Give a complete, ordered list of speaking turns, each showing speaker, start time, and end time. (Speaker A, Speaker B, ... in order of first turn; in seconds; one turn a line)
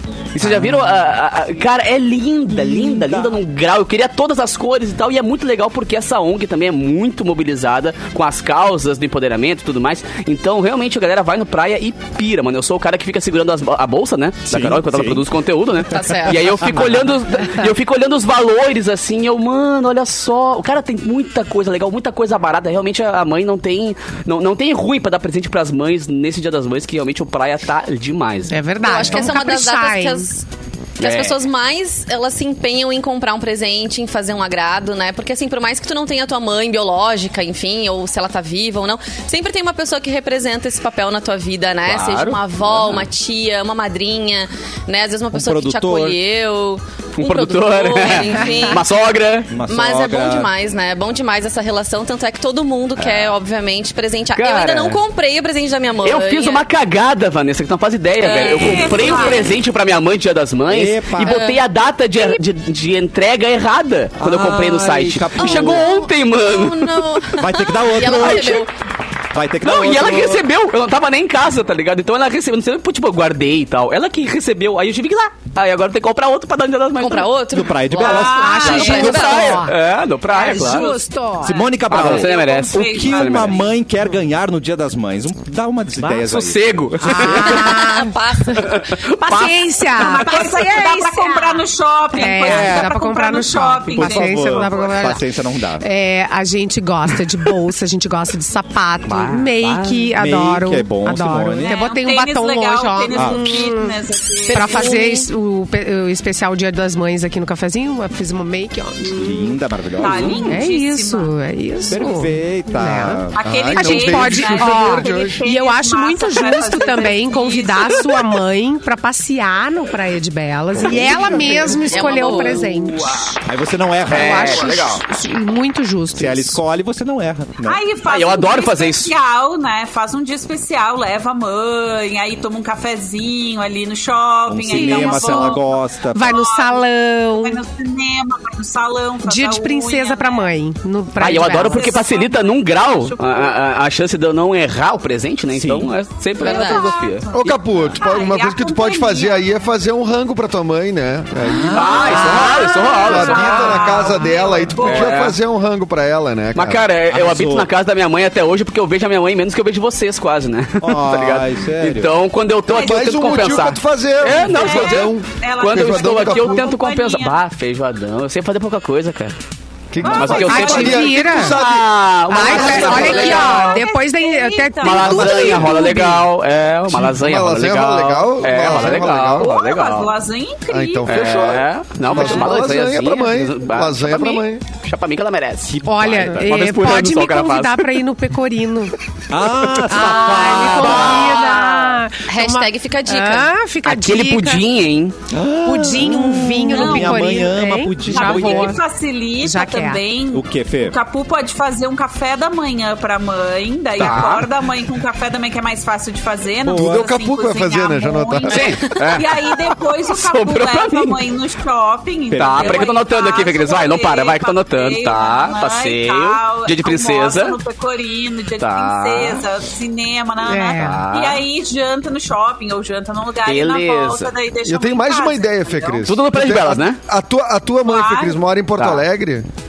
Speaker A: 0.3-28.6
Speaker B: 0.4-0.9
Speaker B: 2.9-3.4
Speaker B: 14.5-15.3
Speaker C: 15.9-16.9
Speaker B: 16.3-17.1
Speaker D: 28.5-30.3
Speaker C: 28.8-30.4
Speaker A: 31.0-31.4
Speaker C: 31.0-48.9
Speaker A: 41.9-42.4
Speaker B: 42.7-43.0
Speaker B: 45.3-46.2
Speaker A: 47.2-49.5
Speaker B: 49.5-50.5
Speaker C: 49.7-56.6
Speaker A: 53.0-53.3
Speaker A: 54.4-55.0
Speaker A: 56.0-67.1
Speaker C: 58.2-59.2
Speaker E: 58.3-59.6
Speaker B: 60.7-61.4
Speaker C: 61.2-61.6
Speaker B: 64.2-65.9
Speaker C: 65.4-68.7
Speaker B: 67.4-68.7
Speaker A: 68.0-68.6
Speaker B: 69.3-70.5
Speaker A: 69.6-77.3
Speaker C: 77.0-79.6
Speaker B: 77.5-79.2
Speaker E: 78.0-79.2
Speaker D: 78.3-79.8
Speaker A: 78.5-81.0
Speaker D: 80.3-81.6
Speaker E: 80.5-81.0
Speaker B: 81.4-87.4
Speaker A: 81.9-83.6
Speaker E: 81.9-83.7
Speaker A: 86.0-87.8
Speaker D: 87.0-95.2
Speaker C: 87.3-88.8
Speaker A: 88.5-89.6
Speaker E: 89.9-94.8
Speaker B: 92.4-92.9
Speaker B: 93.9-95.8
Speaker D: 95.8-104.0
Speaker A: 99.1-100.1
Speaker B: 100.2-101.8
Speaker E: 101.6-105.1
Speaker B: 103.1-103.5
Speaker C: 104.5-105.2
Speaker D: 104.5-109.2
Speaker E: 109.1-111.3
Speaker B: 109.1-110.5
Speaker A: 110.1-110.4
Speaker D: 110.5-123.4
Speaker B: 111.9-113.4
Speaker E: 113.3-118.3
Speaker F: 113.4-115.4
Speaker B: 120.7-121.8
Speaker E: 121.4-121.7
Speaker C: 121.8-122.7
Speaker B: 123.5-124.8
Speaker A: 124.1-125.0
Speaker D: 124.1-126.6
Speaker B: 126.2-127.8
Speaker E: 127.6-140.5
Speaker A: 128.1-129.1
Speaker B: 134.5-136.4
Speaker A: 134.9-135.4
Speaker D: 136.1-137.6
Speaker D: 139.2-142.0
Speaker A: 141.2-147.9
Speaker E: 141.3-143.6
Speaker B: 145.5-145.9
Speaker C: 146.4-146.9
Speaker E: 146.4-149.5
Speaker F: 147.3-156.8
Speaker B: 151.4-152.1
Speaker A: 151.7-153.9
Speaker E: 151.8-155.4
Speaker D: 152.1-154.2
Speaker A: 154.8-155.4
Speaker A: 156.5-169.3
Speaker B: 157.1-157.7
Speaker B: 160.8-162.1
Speaker F: 162.7-166.7
Speaker E: 162.7-163.6
Speaker E: 164.3-167.4
Speaker F: 169.9-173.3
Speaker E: 170.0-171.3
Speaker A: 170.0-173.8
Speaker D: 170.4-171.6
Speaker D: 172.3-176.2
Speaker E: 172.4-175.8
Speaker A: 174.8-180.2
Speaker F: 175.4-175.8
Speaker F: 176.9-179.6
Speaker E: 179.3-181.6
Speaker F: 180.7-184.6
Speaker A: 181.1-188.0
Speaker B: 185.7-186.6
Speaker D: 185.8-188.9
Speaker B: 189.3-191.3
Speaker A: 189.7-192.0
Speaker D: 189.9-194.6
Speaker C: 192.3-193.5
Speaker A: 193.8-195.2
Speaker B: 195.3-198.8
Speaker D: 195.7-198.8
Speaker E: 196.7-197.5
Speaker E: 198.1-226.1
Speaker D: 199.4-200.0
Speaker B: 200.3-201.0
Speaker A: 204.0-204.5
Speaker B: 206.6-207.1
Speaker F: 206.7-208.8
Speaker A: 208.5-209.3
Speaker A: 210.1-211.2
Speaker B: 212.3-212.9
Speaker A: 212.4-217.6
Speaker A: 218.6-219.5
Speaker D: 220.4-221.0
Speaker A: 220.8-221.4
Speaker A: 223.4-224.3
Speaker F: 224.7-229.5
Speaker A: 226.0-227.0
Speaker E: 227.8-228.4
Speaker A: 228.8-229.0